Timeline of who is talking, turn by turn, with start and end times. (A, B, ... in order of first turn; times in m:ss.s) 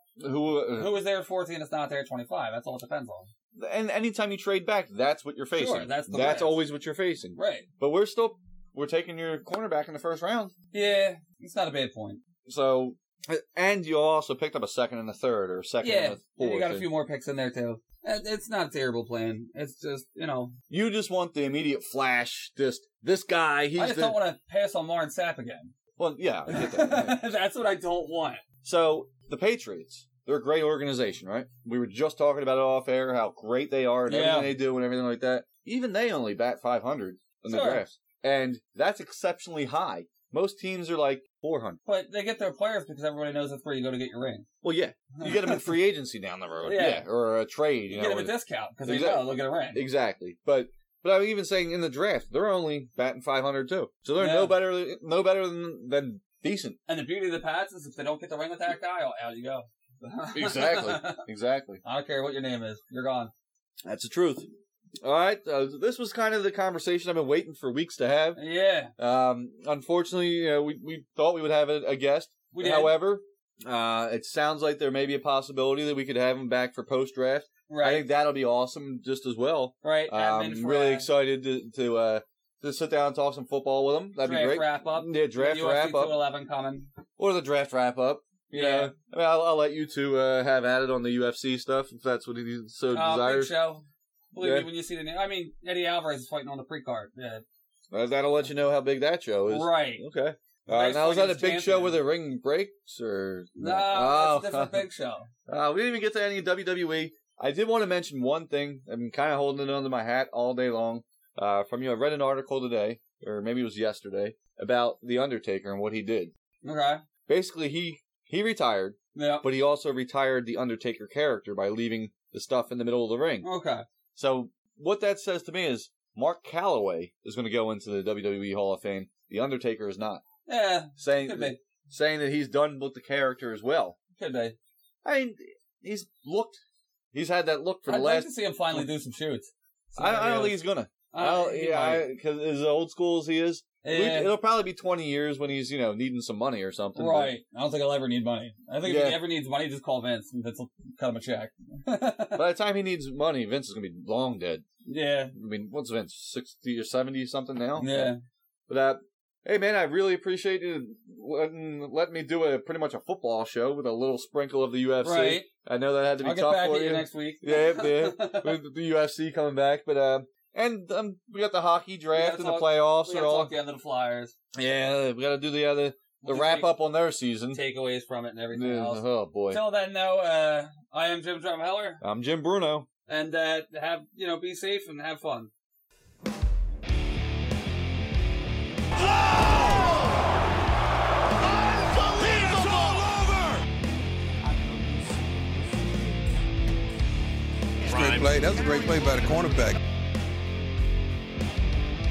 0:00.2-0:00.9 A
0:00.7-0:03.3 B
0:03.5-0:10.5 A
0:05.5-0:06.6 B
0:07.3-0:07.7 B
0:10.7-0:12.2 B
0:12.4-0:16.9 A
0:15.8-0:20.5 B
0:20.7-0:24.2 A
0:23.8-0:25.7 B
0:26.0-0:27.2 A
0:26.4-0:28.4 B
0:28.6-0:41.8 A
0:34.1-0:34.5 B
0:37.5-0:37.8 B
0:41.8-0:44.4 B
0:44.6-0:48.3 A
0:45.2-0:45.7 B
0:46.6-0:47.0 B
0:47.9-0:49.8 B
0:48.8-0:56.8 A
0:54.2-0:54.6 B
0:56.9-1:01.2 B
1:00.3-1:01.8 A
1:01.8-1:03.3 B
1:03.8-1:04.4 A
1:05.0-1:08.4 A
1:08.4-1:08.9 B
1:09.0-1:26.2 A
1:12.5-1:13.0 B
1:17.7-1:18.1 B
1:19.8-1:21.1 B
1:24.2-1:26.9 B
1:27.2-1:33.5 A
1:28.5-1:28.9 B
1:32.9-1:37.4 B
1:34.4-1:34.7 A
1:37.9-1:44.8 A
1:39.5-1:40.0 B
1:40.7-1:42.0 B
1:43.6-1:45.3 B
1:45.5-1:56.3 A
1:56.6-1:57.0 B
1:57.3-2:03.4 A
1:59.1-1:59.4 B
2:03.4-2:03.8 B
2:04.1-2:10.2 A
2:10.4-2:11.6 B
2:11.0-2:14.0 A
2:14.2-2:14.6 B
2:15.0-2:16.6 A
2:17.1-2:18.8 A
2:17.8-2:22.0 B
2:20.0-2:27.3 A
2:23.8-2:24.3 B
2:27.0-2:32.4 B
2:28.8-2:29.2 A
2:32.4-2:34.6 A
2:34.8-2:35.3 B
2:35.3-2:38.1 A
2:37.8-2:38.2 B
2:38.7-2:53.5 A
2:45.0-2:45.5 B
2:46.2-2:48.6 B
2:52.1-2:54.3 B
2:54.5-2:57.6 A
2:56.2-2:56.7 B
2:57.5-3:02.0 B
2:58.5-2:59.6 A
3:02.0-3:02.9 A
3:03.1-3:05.5 B
3:09.2-3:09.9 C
3:11.4-3:13.6 C
3:17.9-3:19.8 C
3:17.9-3:18.3 B